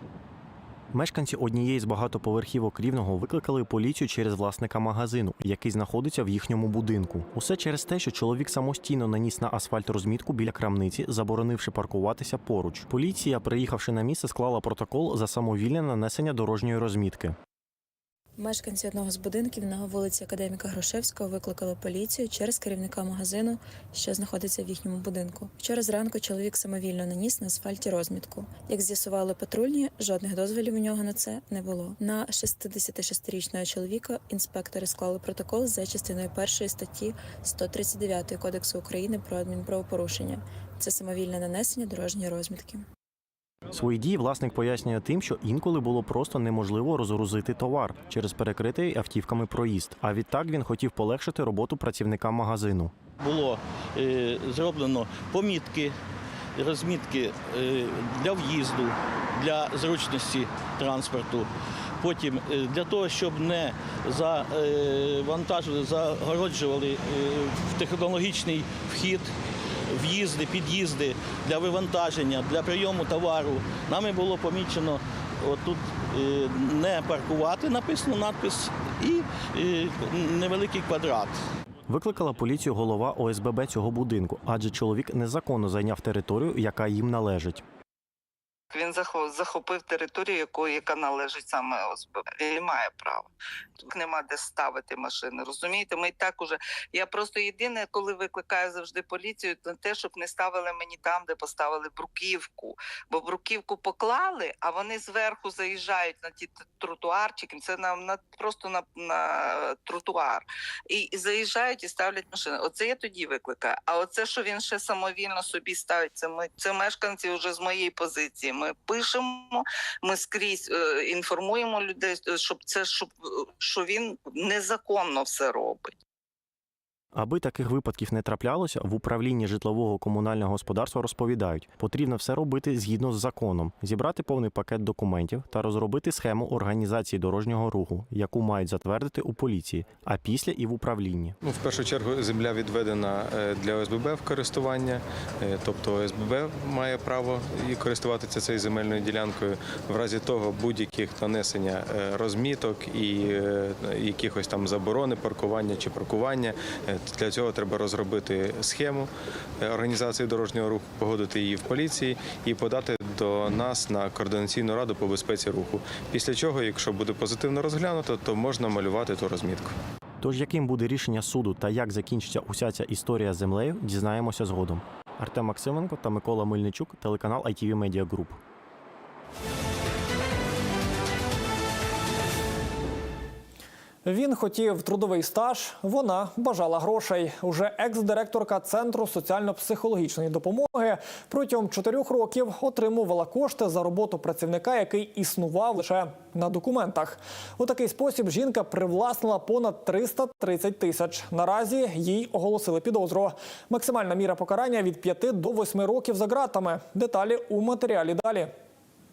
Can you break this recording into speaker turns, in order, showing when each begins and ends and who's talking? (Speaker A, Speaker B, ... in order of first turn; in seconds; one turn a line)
Speaker A: 0.9-17.4
Speaker B: 18.4-42.9
Speaker A: 43.7-52.9
Speaker C: 53.2-55.9
Speaker C: 56.6-61.5
Speaker C: 62.0-69.3
Speaker C: 69.9-81.3
Speaker A: 81.9-87.6
Speaker D: 88.7-125.9
Speaker A: 127.1-141.3
Speaker E: 141.4-169.7
Speaker A: 170.2-178.4
Speaker F: 184.1-208.5